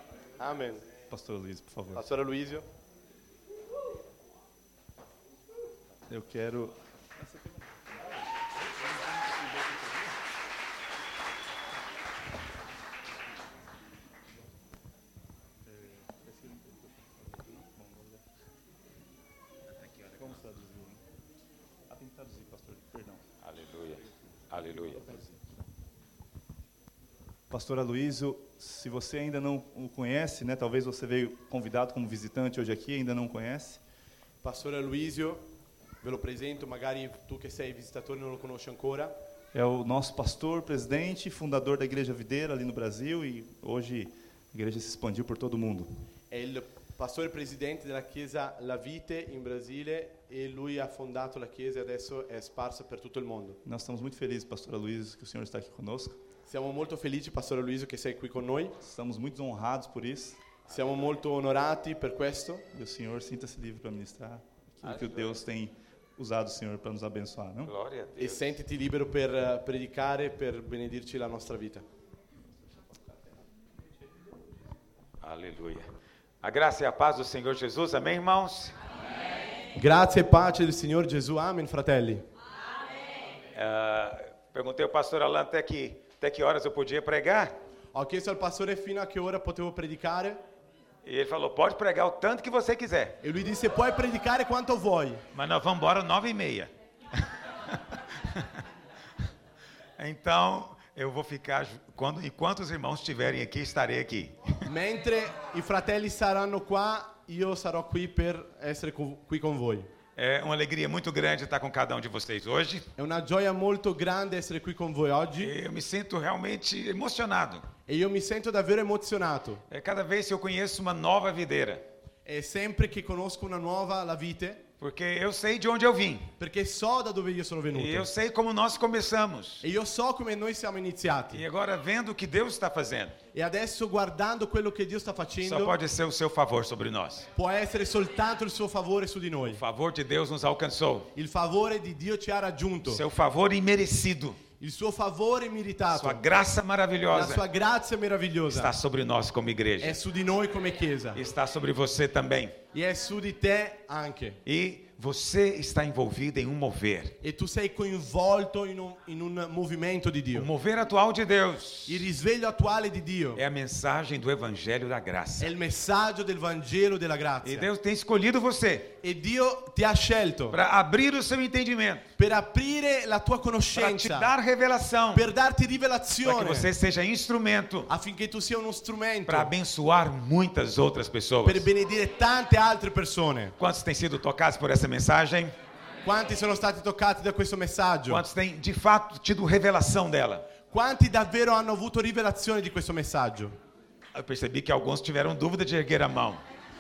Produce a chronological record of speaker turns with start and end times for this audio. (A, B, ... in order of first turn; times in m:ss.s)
0:00.4-0:00.8 A
0:01.1-0:02.0 B
0:02.0-0:02.6 A
0:06.1-0:07.8 B
0:15.7-0:18.2 B
0:20.1-0:21.0 B
0:21.9-0:23.2 B
0:23.4-0:25.2 C
0:24.9-0:25.4 B
0:27.5-0:33.8 B
0:34.4-0:35.5 A
0:36.0-0:39.1 A
0:39.5-0:45.9 B
0:46.3-0:53.6 A
0:53.6-0:56.2 B
0:56.5-0:58.8 A
0:58.8-1:00.4 B
1:00.7-1:02.6 A
1:02.7-1:07.7 B
1:07.6-1:08.6 C
1:08.2-1:11.8 A
1:15.2-1:15.9 C
1:16.4-1:18.8 C
1:19.8-1:22.2 A
1:23.5-1:27.6 C
1:27.9-1:30.4 A
1:31.0-1:33.2 C
1:33.2-1:35.2 A
1:35.3-1:38.6 C
1:40.0-1:44.7 C
1:44.7-1:49.9 A
1:50.2-1:52.9 C
1:53.0-1:55.5 A
1:55.4-1:57.7 C
1:57.9-1:59.6 A
1:59.7-2:01.8 C
2:02.2-2:04.6 A
2:04.8-2:06.3 C
2:06.4-2:08.1 A
2:07.7-2:09.7 C
2:09.6-2:11.4 A
2:11.3-2:13.2 C
2:13.3-2:15.8 A
2:15.4-2:17.3 C
2:17.4-2:19.6 A
2:19.4-2:21.1 C
2:21.2-2:23.0 A
2:22.9-2:24.4 C
2:24.6-2:26.2 A
2:25.9-2:27.4 C
2:27.1-2:28.7 A
2:28.5-2:30.0 C
2:29.8-2:31.2 A
2:31.2-2:32.6 C
2:32.7-2:34.4 A
2:34.5-2:37.2 C
2:37.2-2:40.5 A
2:40.3-2:42.1 C
2:41.9-2:43.4 A
2:43.4-2:45.5 C
2:45.4-2:47.7 A
2:47.4-2:49.0 C
2:49.0-2:50.6 A
2:50.5-2:52.0 C
2:52.2-2:54.3 A
2:53.7-2:55.3 C
2:55.1-2:56.7 A
2:56.2-2:57.9 C
2:57.9-2:59.5 A
2:59.3-3:01.7 C
3:01.4-3:03.6 A
3:03.6-3:05.6 C
3:06.0-3:08.2 A
3:08.1-3:10.5 C
3:10.7-3:13.6 A
3:14.1-3:16.4 C